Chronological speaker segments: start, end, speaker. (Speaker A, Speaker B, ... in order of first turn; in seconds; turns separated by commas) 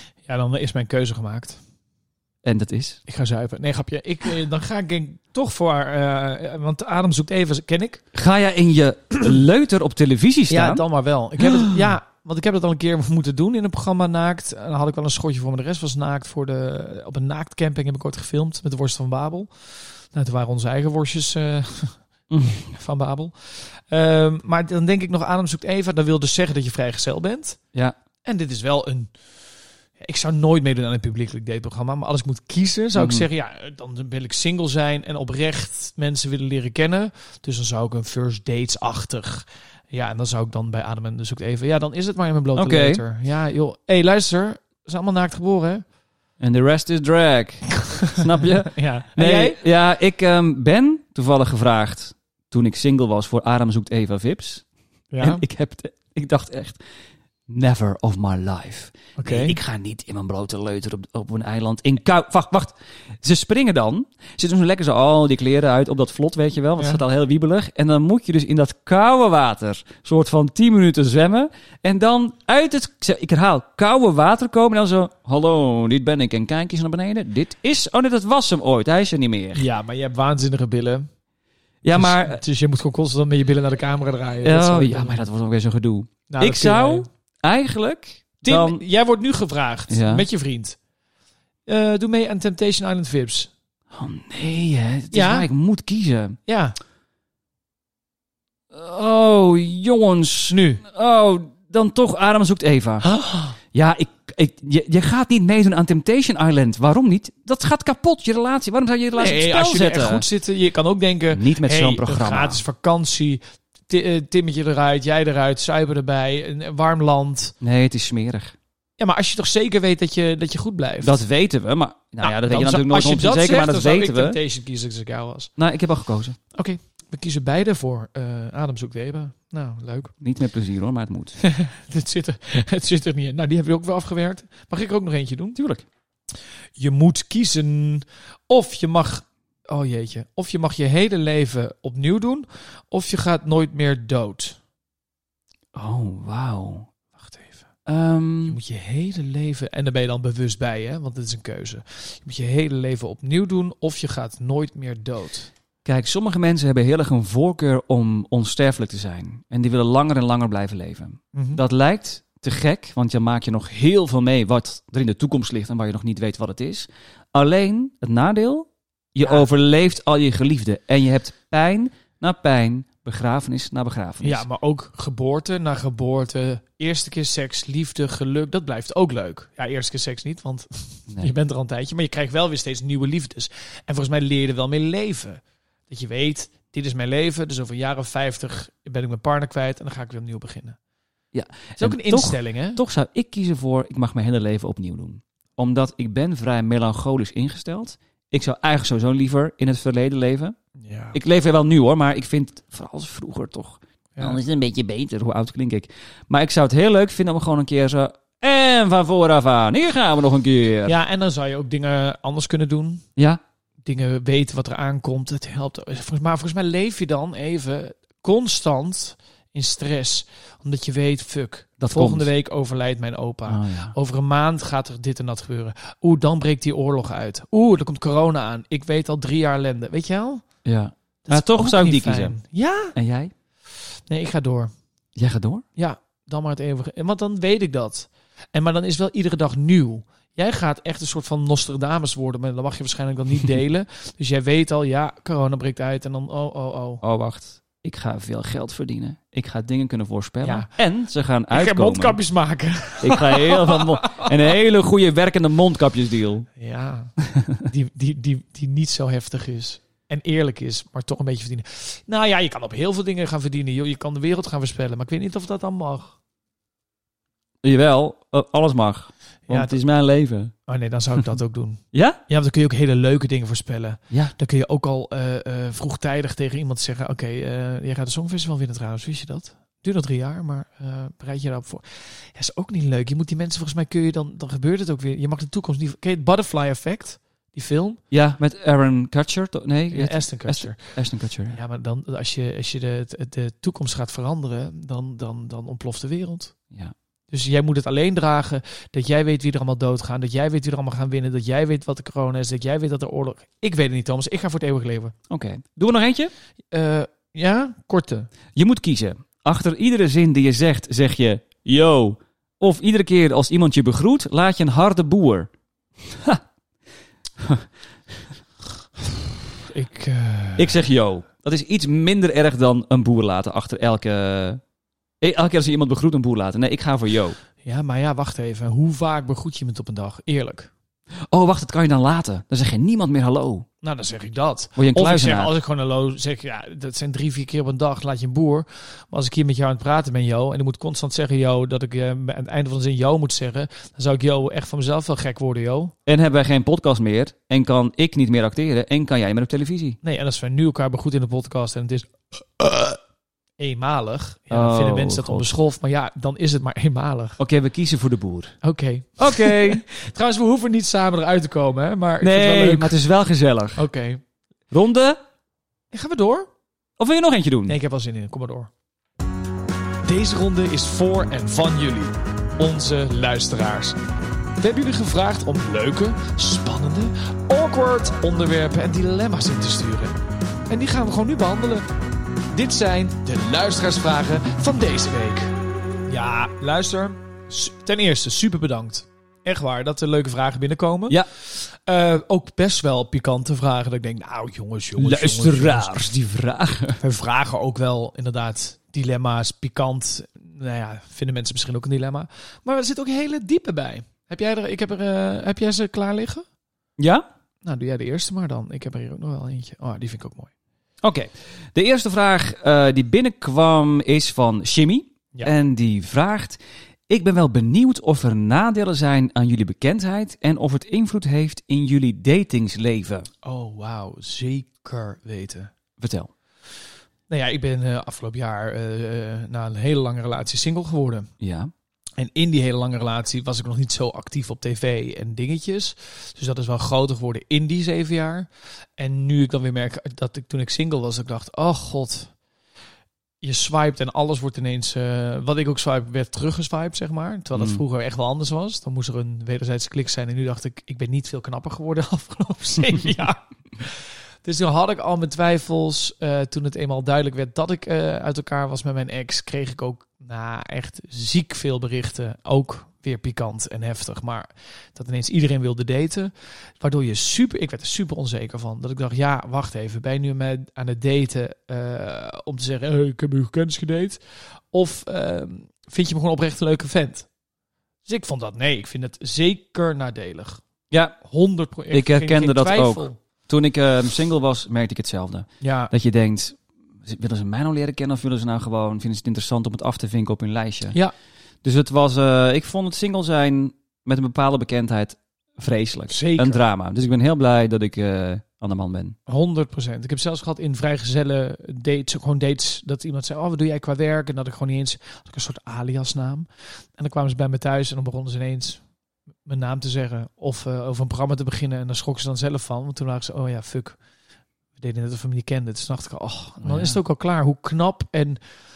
Speaker A: 0.3-1.6, Speaker B: 2.4-3.0, Speaker A: 3.1-8.0, Speaker B: 8.1-10.8, Speaker A: 10.5-22.0, Speaker B: 11.4-11.9, Speaker B: 22.3-22.7, Speaker A: 22.5-27.6, Speaker A: 28.2-29.1, Speaker A: 30.0-45.8, Speaker B: 32.9-33.2, Speaker B: 42.5-43.0, Speaker B: 46.4-54.6, Speaker A: 47.8-49.6, Speaker A: 55.1-55.4, Speaker B: 55.2-56.8, Speaker B: 57.5-79.7, Speaker A: 59.2-59.5, Speaker A: 79.5-81.1, Speaker B: 81.8-82.4, Speaker A: 81.9-85.2, Speaker B: 84.4-88.8, Speaker A: 86.3-87.1, Speaker A: 88.4-90.8, Speaker B: 89.9-90.2, Speaker A: 91.7-93.5, Speaker B: 93.9-96.4, Speaker A: 95.1-95.5, Speaker A: 96.5-96.8, Speaker B: 98.7-103.1, Speaker A: 100.5-100.8, Speaker A: 103.0-103.5, Speaker B: 103.7-110.2, Speaker A: 109.1-117.5, Speaker B: 111.3-112.6, Speaker B: 117.6-118.5, Speaker A: 119.0-121.2, Speaker B: 121.0-124.4, Speaker A: 122.2-125.5, Speaker B: 125.6-126.4, Speaker A: 126.5-130.1, Speaker B: 130.2-131.4, Speaker A: 131.4-135.6, Speaker B: 135.6-135.8, Speaker A: 136.8-144.6, Speaker B: 145.7-146.9, Speaker A: 147.2-147.7, Speaker B: 147.8-148.6, Speaker A: 148.5-155.5, Speaker B: 155.8-174.4, Speaker A: 161.3-161.6, Speaker A: 174.2-190.8, Speaker B: 191.3-200.6, Speaker A: 191.8-192.8, Speaker A: 200.8-201.2, Speaker B: 201.1-210.9, Speaker A: 210.8-213.0, Speaker A: 213.8-230.4, Speaker B: 221.8-222.3, Speaker B: 223.5-223.9, Speaker B: 230.6-232.3, Speaker A: 231.2-232.9, Speaker B: 232.9-233.3, Speaker A: 233.9-234.7, Speaker B: 235.2-235.6, Speaker A: 235.8-247.0, Speaker B: 247.0-252.2, Speaker A: 250.4-250.7, Speaker A: 251.5-254.3, Speaker B: 253.0-256.5, Speaker A: 256.6-257.1, Speaker B: 257.2-257.6, Speaker A: 257.6-266.1, Speaker B: 267.6-270.5, Speaker A: 269.5-269.8, Speaker A: 270.7-288.0, Speaker B: 271.9-272.2, Speaker B: 288.1-291.6, Speaker A: 289.9-290.8, Speaker A: 291.5-296.5, Speaker A: 297.3-305.1, Speaker B: 305.3-306.3, Speaker A: 306.7-308.3, Speaker B: 308.5-315.5, Speaker B: 316.0-316.4, Speaker B: 317.4-317.7, Speaker A: 319.7-320.8, Speaker B: 320.6-324.6, Speaker B: 325.2-327.4, Speaker A: 327.6-330.7, Speaker B: 331.3-333.6, Speaker A: 333.8-345.9, Speaker B: 334.8-335.5, Speaker B: 346.1-350.0, Speaker A: 350.0-353.0, Speaker A: 353.6-357.4, Speaker B: 354.5-355.5, Speaker B: 357.4-358.5, Speaker A: 358.6-363.0, Speaker B: 359.2-359.8, Speaker B: 362.2-363.9, Speaker A: 363.8-364.2, Speaker B: 364.7-365.2, Speaker A: 365.9-366.5, Speaker B: 367.0-367.8, Speaker A: 367.7-368.7, Speaker A: 370.0-374.0, Speaker A: 374.6-380.2, Speaker A: 380.7-381.9, Speaker A: 382.5-385.5, Speaker A: 386.1-396.1, Speaker B: 395.0-397.0, Speaker A: 397.0-406.4, Speaker B: 407.0-407.2, Speaker A: 407.6-410.5, Speaker B: 411.0-416.6, Speaker B: 417.1-423.3, Speaker A: 423.4-425.7, Speaker B: 426.0-426.3, Speaker A: 427.3-431.3, Speaker B: 431.4-431.7, Speaker A: 432.2-442.3, Speaker A: 443.4-474.2, Speaker B: 447.6-447.8, Speaker A: 474.7-477.3, Speaker A: 478.0-480.6, Speaker B: 480.9-481.2, Speaker A: 481.2-483.2, Speaker B: 481.9-491.0, Speaker A: 485.6-485.9, Speaker B: 491.6-499.1, Speaker A: 496.1-496.6, Speaker A: 499.3-508.8, Speaker A: 509.4-514.0, Speaker A: 514.8-518.4, Speaker B: 516.6-517.0